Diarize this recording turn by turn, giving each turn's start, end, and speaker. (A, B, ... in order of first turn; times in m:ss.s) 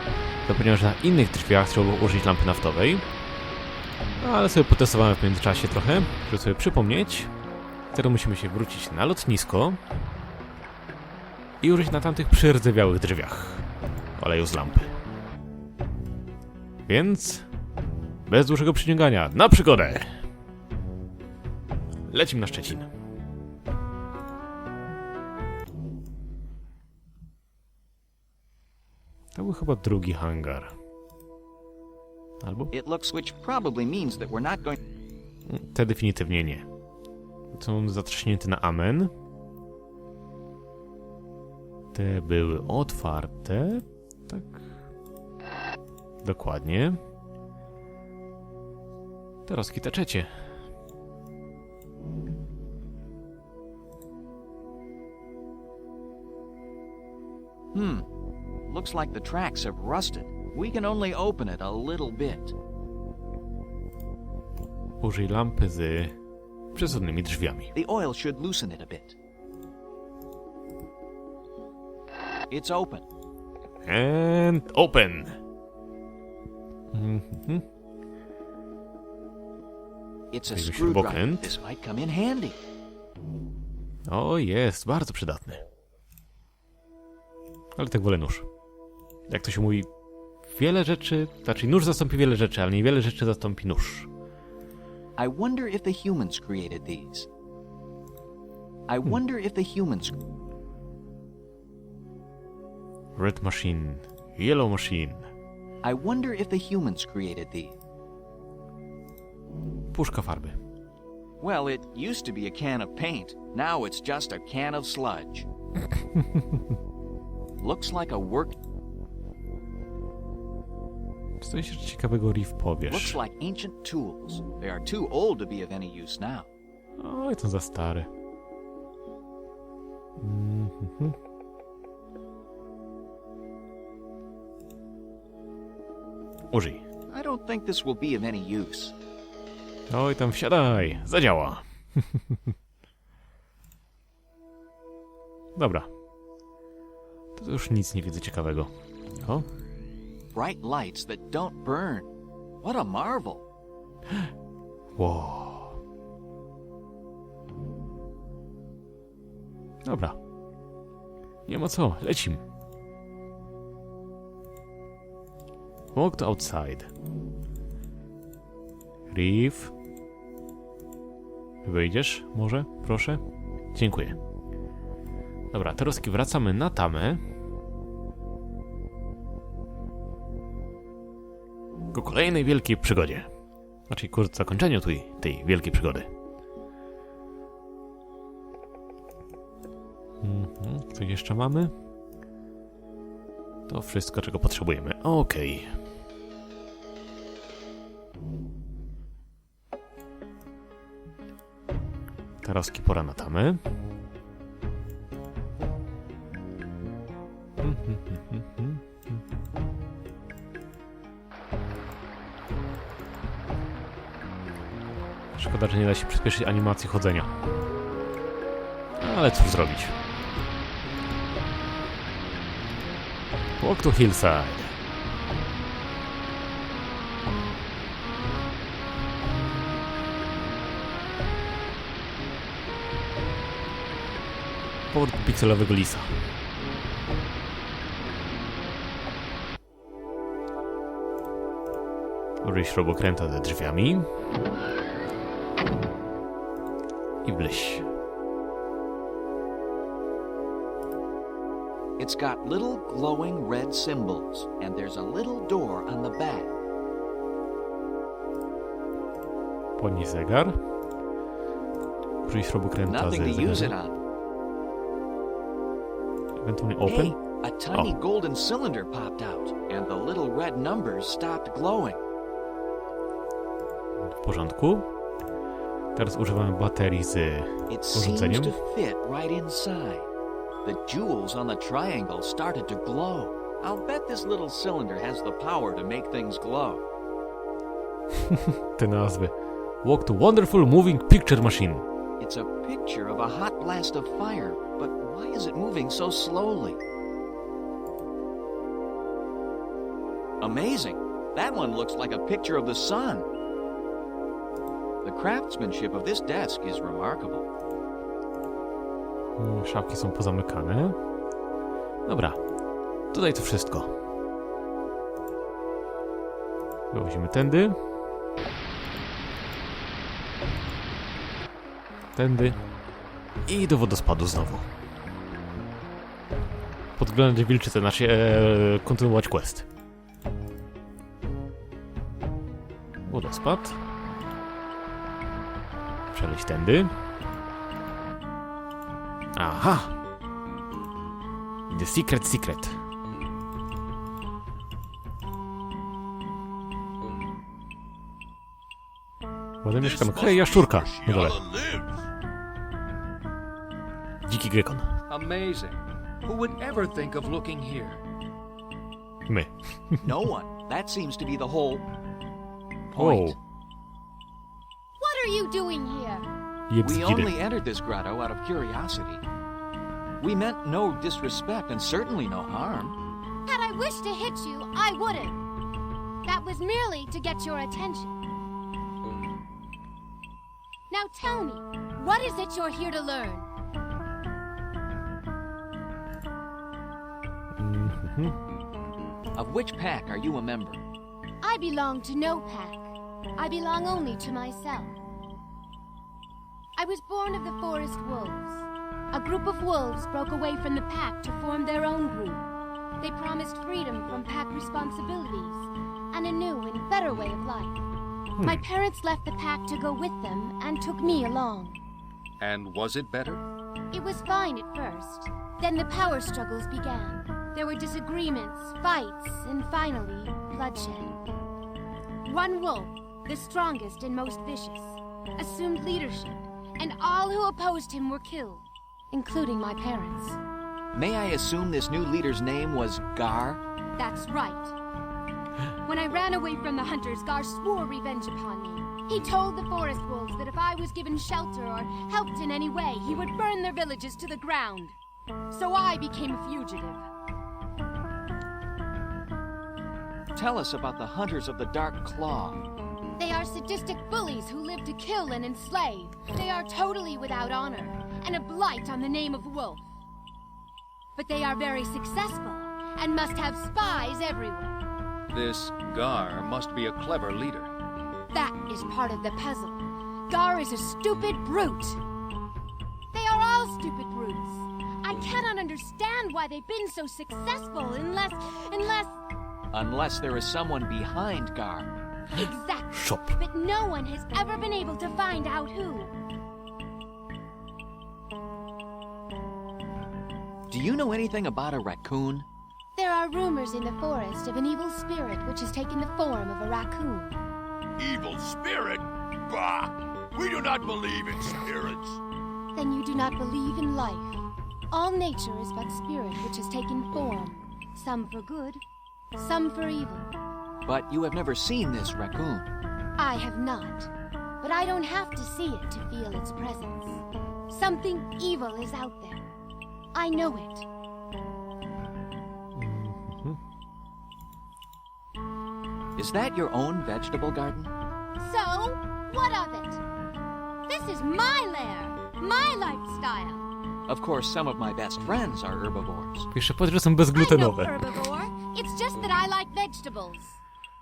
0:00.4-0:03.0 A
0:04.2-0:07.3 A
0:07.9-0:09.8 A
0:11.6-0:13.6 A
0:14.2-0:14.9 A
0:16.9-0:17.4 A
0:18.2-0:20.2 A
0:22.1-0:22.9 A
0:29.3-0:30.7 A
0:32.4-0:32.7 A
0:32.7-0:34.8 B
0:35.5-0:36.6 A
0:37.5-0:39.1 A
0:41.9-0:44.6 A
0:46.2-0:47.0 A
0:49.4-0:50.3 A
0:57.7-0:58.0 B
0:58.7-1:02.5 B
1:05.0-1:06.1 A
1:06.7-1:07.7 A
1:07.7-1:09.2 B
1:12.5-1:13.0 B
1:13.8-1:15.4 A
1:16.9-1:17.6 A
1:20.3-1:22.6 B
1:20.5-1:21.5 A
1:24.1-1:25.6 A
1:27.8-1:28.4 A
1:29.3-1:29.9 A
1:30.4-1:34.1 A
1:35.2-1:37.3 B
1:38.9-1:40.2 B
1:43.2-1:45.3 A
1:45.8-1:47.8 B
1:49.9-1:50.6 A
1:51.4-1:55.5 B
1:57.6-1:58.5 B
2:01.4-2:03.2 A
2:02.9-2:06.5 B
2:07.0-2:08.1 A
2:10.2-2:11.1 A
2:16.5-2:16.8 A
2:17.1-2:18.9 B
2:19.9-2:22.4 A
2:25.6-2:25.9 A
2:27.4-2:28.7 A
2:30.3-2:32.1 B
2:32.6-2:33.4 B
2:35.0-2:35.8 A
2:39.8-2:40.2 A
2:41.5-2:42.4 A
2:45.9-2:46.9 A
2:49.1-2:49.7 A
2:51.6-2:53.2 A
2:53.7-2:54.2 A
2:55.5-2:57.2 A
3:01.9-3:03.3 A
3:03.9-3:06.1 A
3:10.2-3:11.7 A
3:13.7-3:15.7 A
3:22.4-3:23.6 A
3:27.6-3:29.2 A
3:35.3-3:37.3 A
3:39.0-3:39.9 A
3:43.6-3:44.7 A
3:54.9-3:56.2 A
4:02.4-4:04.1 A
4:07.2-4:07.9 A
4:12.0-4:16.5 B
4:19.8-4:20.6 A
4:22.2-4:23.7 A
4:22.9-4:24.0 B
4:26.4-4:27.2 A
4:26.8-4:32.0 B
4:34.1-4:34.9 A
4:35.9-4:38.5 A
4:37.7-4:40.1 B
4:40.6-4:46.8 B
4:48.3-4:51.8 A
4:52.2-4:56.8 B
5:00.4-5:03.3 B
5:05.0-5:07.5 B
5:09.4-5:11.0 A
5:12.0-5:12.4 A
5:13.1-5:13.9 A
5:16.9-5:17.8 A
5:22.1-5:22.6 A
5:23.4-5:24.7 A
5:27.0-5:29.7 A
5:33.1-5:33.8 A
5:36.1-5:36.9 A
5:39.4-5:39.9 A
5:41.7-5:42.8 A
5:49.6-5:51.4 A
5:49.8-5:52.0 C
5:54.2-5:54.9 A
5:55.1-5:58.0 D
5:59.3-6:00.0 A
6:00.0-6:01.8 B
6:02.9-6:03.4 B
6:03.0-6:03.4 A
6:05.0-6:06.3 E
6:06.7-6:07.3 A
6:06.8-6:09.2 B
6:10.2-6:13.0 B
6:13.4-6:15.4 E
6:16.2-6:18.1 E
6:20.9-6:23.5 E
6:27.6-6:28.3 A
6:29.4-6:30.8 B
6:31.4-6:35.0 E
6:36.8-6:42.4 E
6:43.0-6:47.8 E
6:48.4-6:48.6 A
6:48.4-6:51.8 E
6:52.4-6:53.4 D
6:53.9-7:01.2 E
7:02.2-7:10.4 E
7:10.9-7:13.6 B
7:14.0-7:14.7 E
7:15.8-7:25.0 E
7:25.5-7:27.0 E
7:30.3-7:32.6 B
7:33.2-7:39.8 E
7:41.2-7:44.8 E
7:45.3-7:47.7 D
7:48.3-7:52.0 E
7:53.1-7:59.2 E
7:59.7-8:01.9 B
8:02.3-8:06.1 E
8:02.9-8:03.4 A
8:10.7-8:12.4 B
8:12.9-8:17.4 E
8:18.0-8:22.2 C
8:22.7-8:28.8 E
8:29.4-8:30.3 E
8:30.8-8:32.7 B
8:33.2-8:34.1 E
8:34.6-8:39.4 E
8:40.1-8:40.9 E
8:42.7-8:43.6 A
8:46.2-8:47.9 B
8:48.4-8:50.0 E
8:50.9-8:53.6 E
8:54.1-8:56.5 B
8:56.5-8:57.9 A
8:57.3-9:00.6 E